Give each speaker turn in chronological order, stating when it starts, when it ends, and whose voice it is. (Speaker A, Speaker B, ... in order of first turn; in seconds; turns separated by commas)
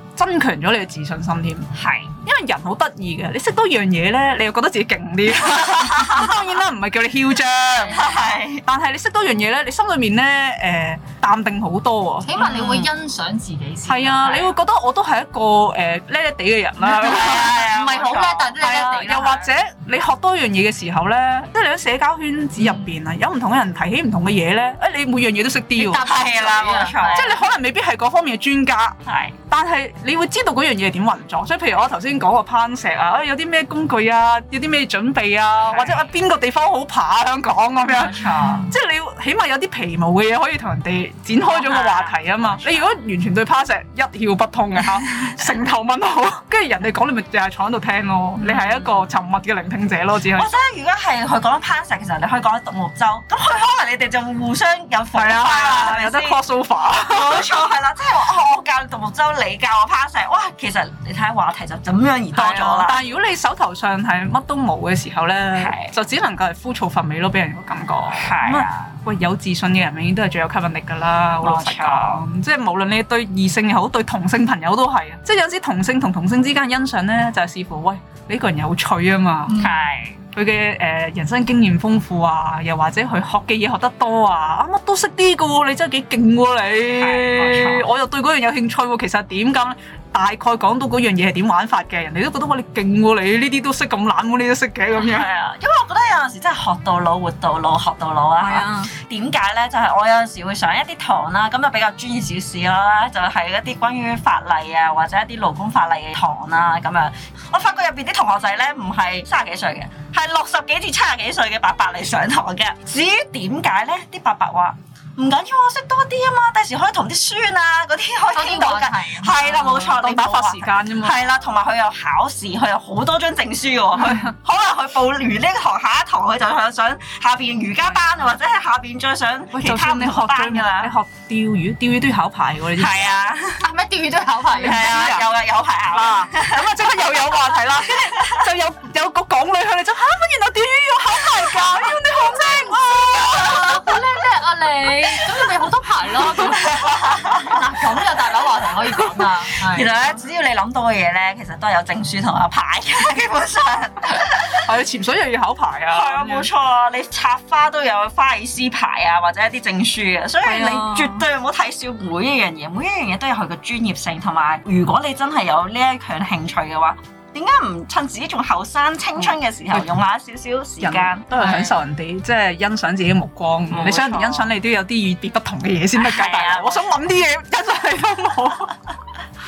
Speaker A: 0.1-1.7, Speaker B: 1.7-2.1, Speaker A: 2.2-12.8, Speaker C: 7.8-8.1, Speaker B: 7.9-8.6, Speaker C: 12.2-14.5, Speaker B: 12.4-12.8, Speaker A: 13.8-17.6, Speaker B: 16.9-18.6, Speaker C: 17.0-19.5, Speaker A: 18.6-26.1, Speaker C: 22.6-22.9, Speaker C: 25.8-27.4, Speaker B: 26.0-27.4, Speaker A: 27.1-29.0, Speaker B: 29.1-29.4, Speaker A: 29.5-50.5, Speaker B: 35.6-36.0, Speaker B: 37.9-38.7, Speaker B: 41.4-42.9, Speaker B: 48.4-49.0, Speaker B: 50.3-56.4, Speaker A: 55.1-57.5, Speaker B: 57.0-63.0, Speaker A: 62.3-79.6, Speaker B: 65.5-65.9, Speaker B: 68.1-68.9, Speaker B: 71.4-72.2, Speaker C: 79.5-79.8, Speaker B: 79.6-80.2, Speaker A: 80.3-95.3, Speaker B: 87.0-87.9, Speaker B: 95.0-130.9, Speaker A: 98.4-98.9, Speaker C: 118.3-119.6, Speaker A: 119.4-121.2, Speaker A: 124.0-124.3, Speaker A: 129.5-133.1, Speaker B: 132.8-133.7, Speaker C: 133.6-135.2, Speaker A: 134.6-135.3, Speaker B: 134.6-136.8, Speaker A: 135.9-144.0, Speaker B: 137.9-138.4, Speaker C: 143.2-150.0, Speaker B: 146.8-147.5, Speaker B: 149.6-154.7, Speaker A: 154.6-156.5, Speaker B: 155.9-171.7, Speaker A: 160.4-161.2, Speaker A: 169.2-169.9, Speaker A: 170.8-178.8, Speaker C: 171.4-171.7, Speaker B: 173.7-174.5, Speaker B: 175.9-176.9